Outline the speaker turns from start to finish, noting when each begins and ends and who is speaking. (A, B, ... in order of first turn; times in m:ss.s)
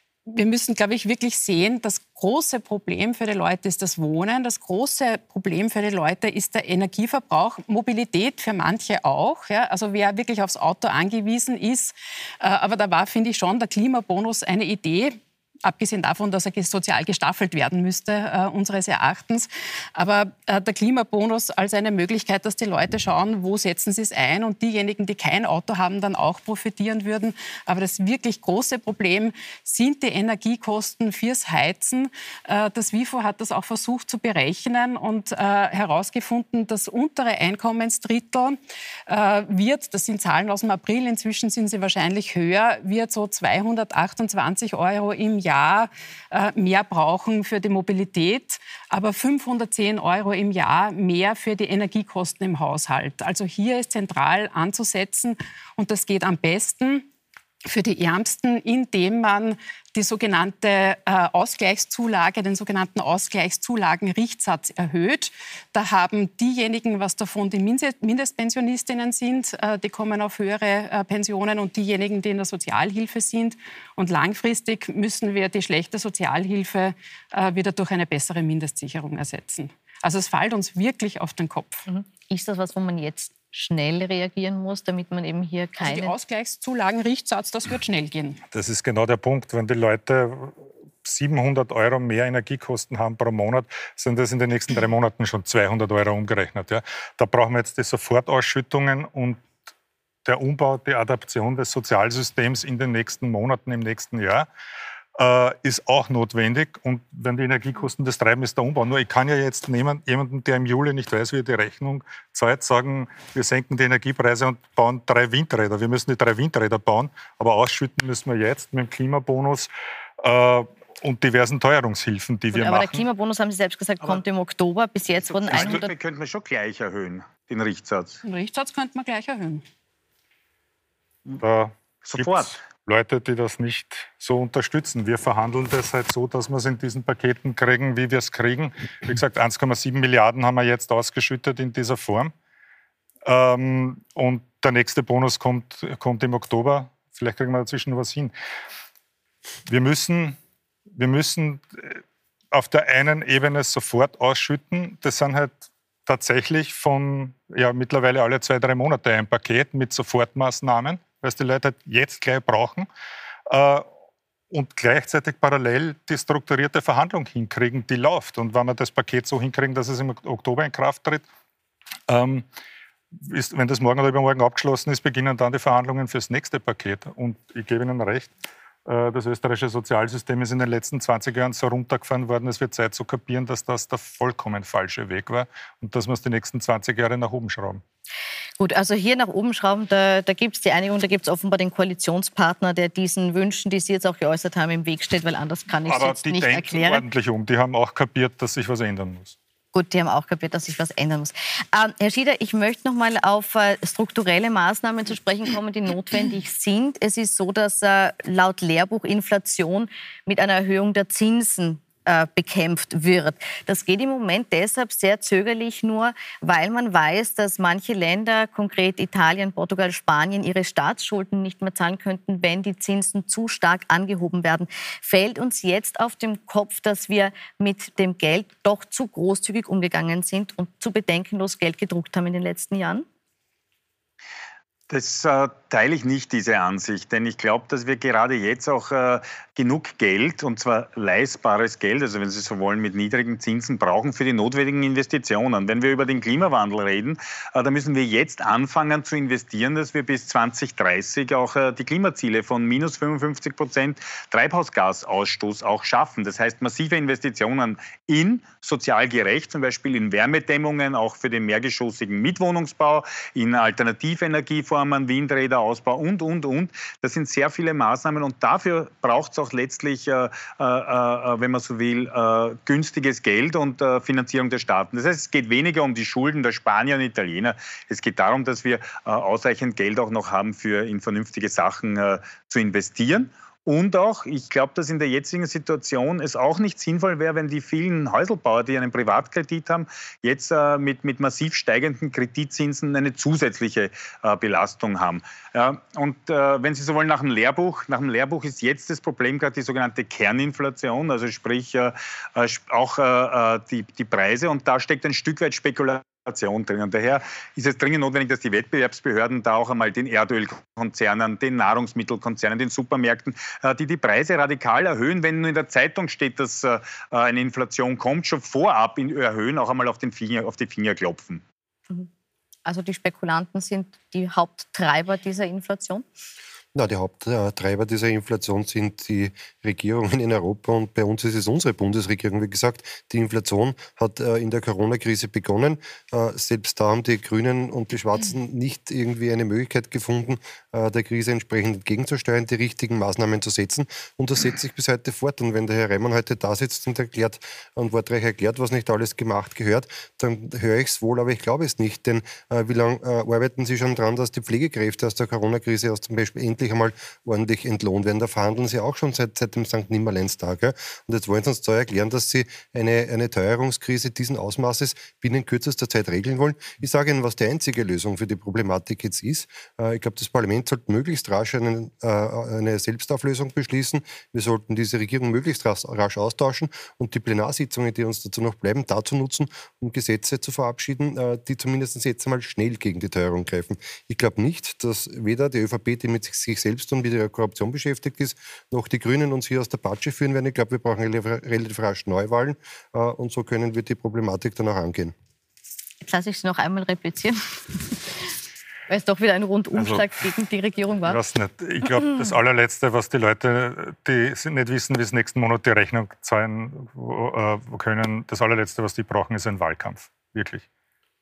0:00.3-0:57.1 A
0:57.6-1:21.8 A
1:21.9-1:26.1 B
1:25.8-1:28.4 A
1:28.5-1:39.4 C
1:40.2-1:44.5 C
1:45.2-2:03.0 C
2:02.5-2:05.9 B
2:05.4-2:08.2 D
2:05.5-2:05.8 C
2:08.2-2:09.6 A
2:11.4-2:22.3 C
2:12.0-2:12.6 D
2:23.3-2:28.3 C
2:29.7-2:30.4 C
2:31.0-2:32.0 C
2:32.5-2:42.9 C
2:43.5-2:43.9 C
2:44.5-2:51.3 C
2:52.1-2:52.4 C
2:53.2-2:58.3 C
2:58.9-3:07.8 C
3:08.6-3:17.0 B
3:15.9-3:19.4 C
3:19.7-3:53.1 B
3:54.9-5:21.4 D
5:22.6-5:26.0 B
5:26.7-6:35.1 E
6:36.0-6:38.3 B
6:38.9-6:41.2 B
6:39.8-6:40.1 C
6:41.1-6:50.7 C